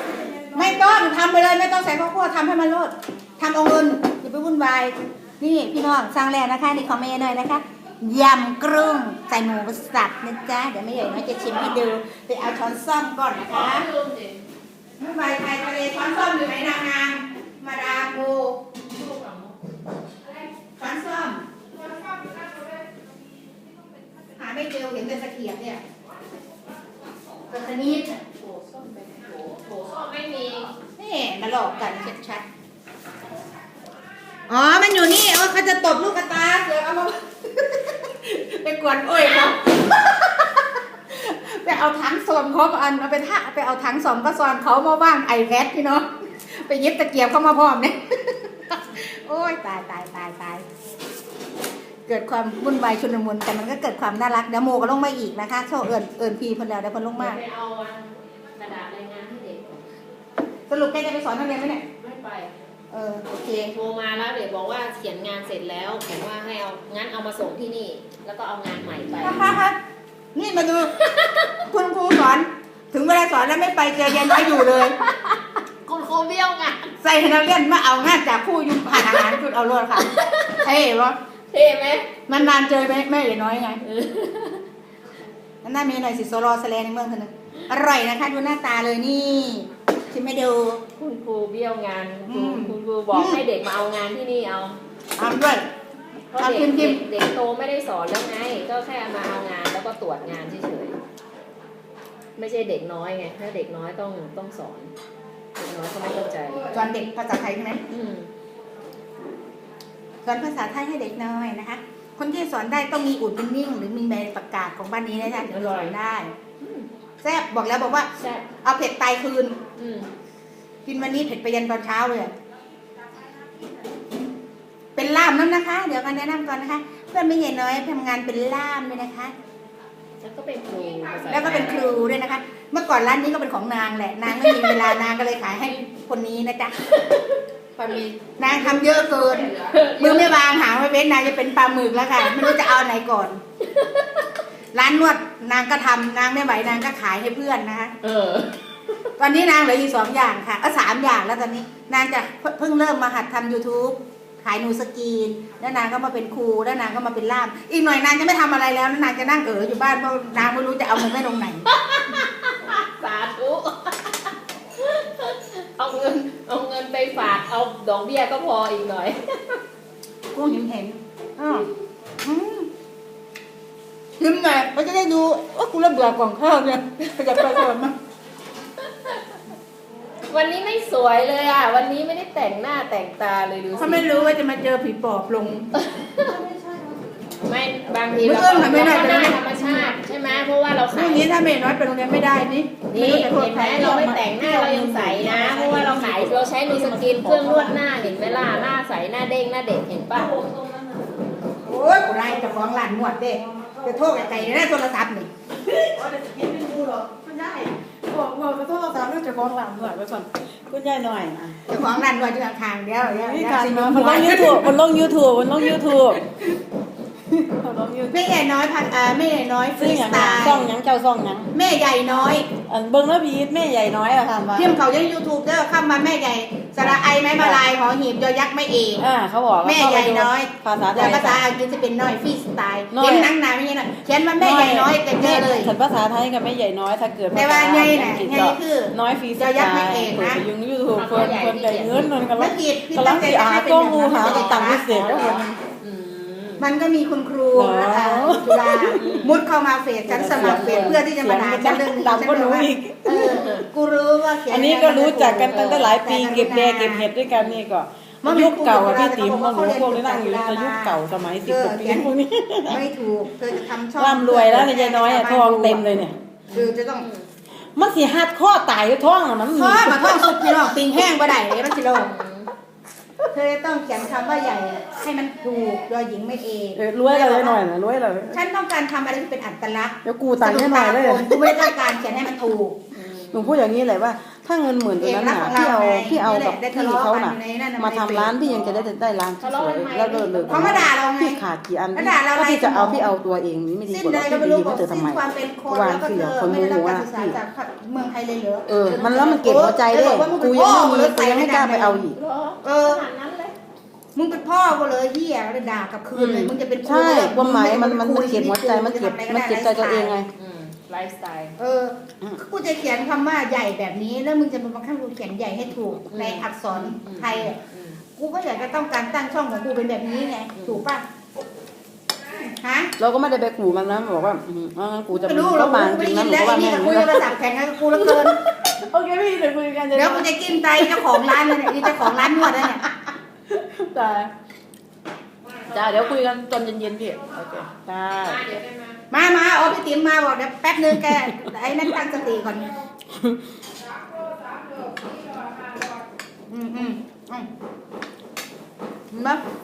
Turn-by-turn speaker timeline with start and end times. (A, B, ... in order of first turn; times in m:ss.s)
0:00.2-0:00.7 A
0:00.5-0:13.9 B
0:13.3-0:14.4 C
0:15.0-0:18.6 B
0:18.9-0:19.5 C
0:20.8-0:21.4 B
0:24.4-0:25.8 B
0:27.5-0:28.2 B
0:28.4-0:30.7 C
0:31.0-0:32.4 B
0:34.5-0:50.6 B
0:52.1-0:57.4 B
0:57.2-0:59.8 C
1:00.7-1:01.8 B
1:02.0-1:02.5 C
1:02.9-1:03.7 B
1:03.7-1:09.5 C
1:09.2-1:09.8 B
1:10.3-1:10.9 B
1:11.0-1:11.6 C
1:11.6-1:14.9 B
1:14.1-1:16.9 C
1:17.0-1:21.2 B
1:19.0-1:19.3 C
1:20.0-1:20.6 C
1:21.5-1:22.2 C
1:22.3-1:23.8 B
1:23.8-1:24.6 C
1:25.6-1:30.8 B
1:30.9-1:34.8 C
1:32.2-1:33.4 B
1:35.2-1:35.6 B
1:36.3-1:41.0 C
1:36.4-1:37.0 B
1:42.4-1:44.9 C
1:45.6-1:46.7 C
1:46.6-1:47.8 B
1:47.9-1:48.3 C
1:50.2-1:56.3 B
1:55.2-1:55.9 C
1:56.6-1:56.9 C
1:57.2-1:58.1 B
1:58.1-1:58.5 C
1:58.6-1:59.6 B
1:59.7-2:00.1 C
2:00.8-2:02.3 B
2:04.9-2:09.3 B
2:10.2-2:12.0 C
2:11.3-2:16.9 B
2:14.5-2:14.8 C
2:17.0-2:17.3 C
2:17.8-2:18.2 A
2:18.4-2:23.4 B
2:19.6-2:20.3 C
2:22.2-2:22.5 C
2:23.6-2:24.3 C
2:24.7-2:27.9 B
2:28.0-2:28.6 C
2:29.2-2:41.6 B
2:41.7-2:49.6 C
2:50.3-2:51.7 B
2:52.2-2:52.7 B
2:54.2-2:57.9 B
2:58.8-2:59.2 C
3:00.3-3:04.1 C
3:03.8-3:05.7 B
3:05.7-3:06.4 C
3:06.2-3:07.0 A
3:07.4-3:11.2 C
3:08.2-3:10.0 B
3:10.9-3:14.1 B
3:12.9-3:20.4 C
3:13.7-3:18.7 A
3:20.1-3:21.3 A
3:21.6-3:25.3 B
3:23.4-3:24.6 A
3:25.6-3:31.6 A
3:31.7-3:34.8 B
3:33.0-3:36.2 A
3:35.6-3:36.2 B
3:37.4-3:38.2 A
3:38.1-3:40.7 B
3:39.8-3:41.5 A
3:41.5-3:42.5 B
3:42.6-3:44.8 A
3:44.5-3:49.0 B
3:46.8-3:47.6 A
3:49.0-3:51.4 A
3:49.6-3:55.7 B
3:52.9-3:53.3 A
3:54.4-4:05.6 A
3:57.3-4:00.4 B
4:00.9-4:02.1 C
4:02.4-4:05.4 B
4:04.0-4:06.6 C
4:06.6-4:17.1 B
4:07.5-4:09.2 A
4:09.0-4:09.3 C
4:10.0-4:13.4 A
4:10.4-4:10.9 C
4:13.2-4:13.6 C
4:14.5-4:22.8 A
4:15.5-4:15.9 C
4:17.3-4:17.6 C
4:18.2-4:22.1 B
4:22.7-4:25.8 B
4:24.0-4:26.2 A
4:26.5-4:27.3 C
4:26.5-4:27.1 B
4:27.7-4:30.6 A
4:29.5-4:32.1 B
4:31.9-4:32.5 C
4:33.3-4:37.6 B
4:36.8-4:38.4 A
4:38.3-4:42.8 B
4:40.0-4:41.8 A
4:42.9-4:43.6 C
4:43.3-4:57.4 A
4:45.0-4:48.8 B
4:49.4-4:50.9 C
4:50.4-4:51.4 B
4:51.9-4:53.1 B
4:53.9-5:02.1 B
4:58.7-5:02.2 A
5:02.1-5:03.5 C
5:02.6-5:03.0 B
5:04.1-5:10.2 B
5:06.1-5:10.3 A
5:10.3-5:11.6 C
5:11.6-5:17.6 B
5:16.1-5:18.0 C
5:18.2-5:21.0 B
5:20.5-5:20.8 C
5:22.6-5:22.9 B
5:23.0-5:27.3 A
5:25.1-5:28.4 B
5:27.9-5:32.9 A
5:29.9-5:32.9 B
5:33.5-5:34.3 A
5:35.5-5:36.0 C
5:35.7-5:38.4 A
5:38.2-5:39.0 C
5:39.1-5:42.7 B
5:40.9-5:41.2 A
5:43.2-5:43.4 A
5:46.5-5:47.5 B
5:49.1-5:49.4 B